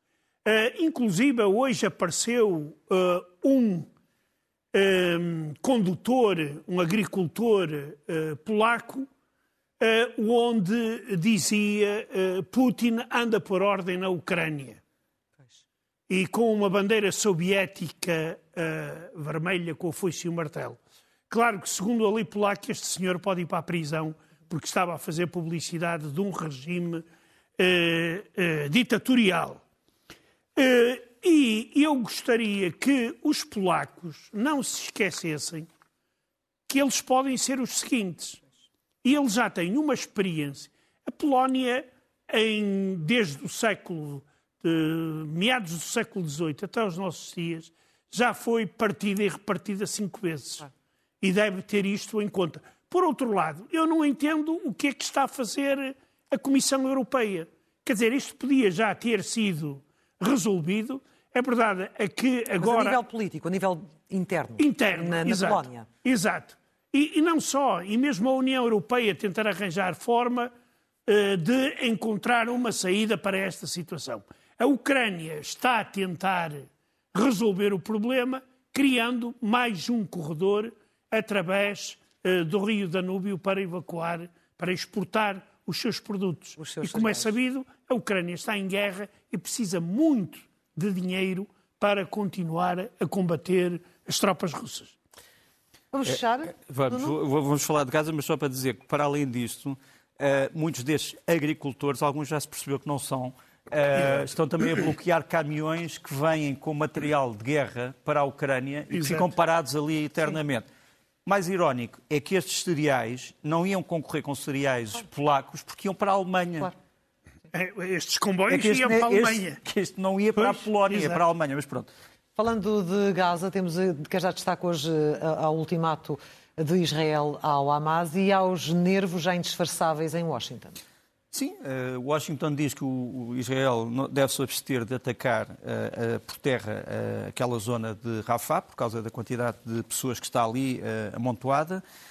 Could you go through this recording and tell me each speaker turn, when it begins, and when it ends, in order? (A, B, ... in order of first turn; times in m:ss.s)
0:00.4-0:03.9 A
0:04.7-0:09.1 A
0:09.8-0:14.8 A
0:16.1-0:20.8 A
0:21.3-0:27.0 A
0:27.6-0:29.6 A
0:30.6-0:35.7 A
0:36.7-0:38.4 A
0:39.0-0:50.7 A
0:51.2-1:03.0 A
1:02.6-1:05.9 B
1:04.6-1:10.5 A
1:11.1-1:35.0 A
1:26.6-1:27.3 B
1:35.9-1:37.2 B
1:36.0-1:50.7 C
1:48.9-1:49.3 A
1:51.3-1:56.7 C
1:57.5-1:59.6 A
1:58.5-2:01.9 C
2:00.4-2:01.1 A
2:02.4-2:10.8 B
2:11.3-2:21.8 C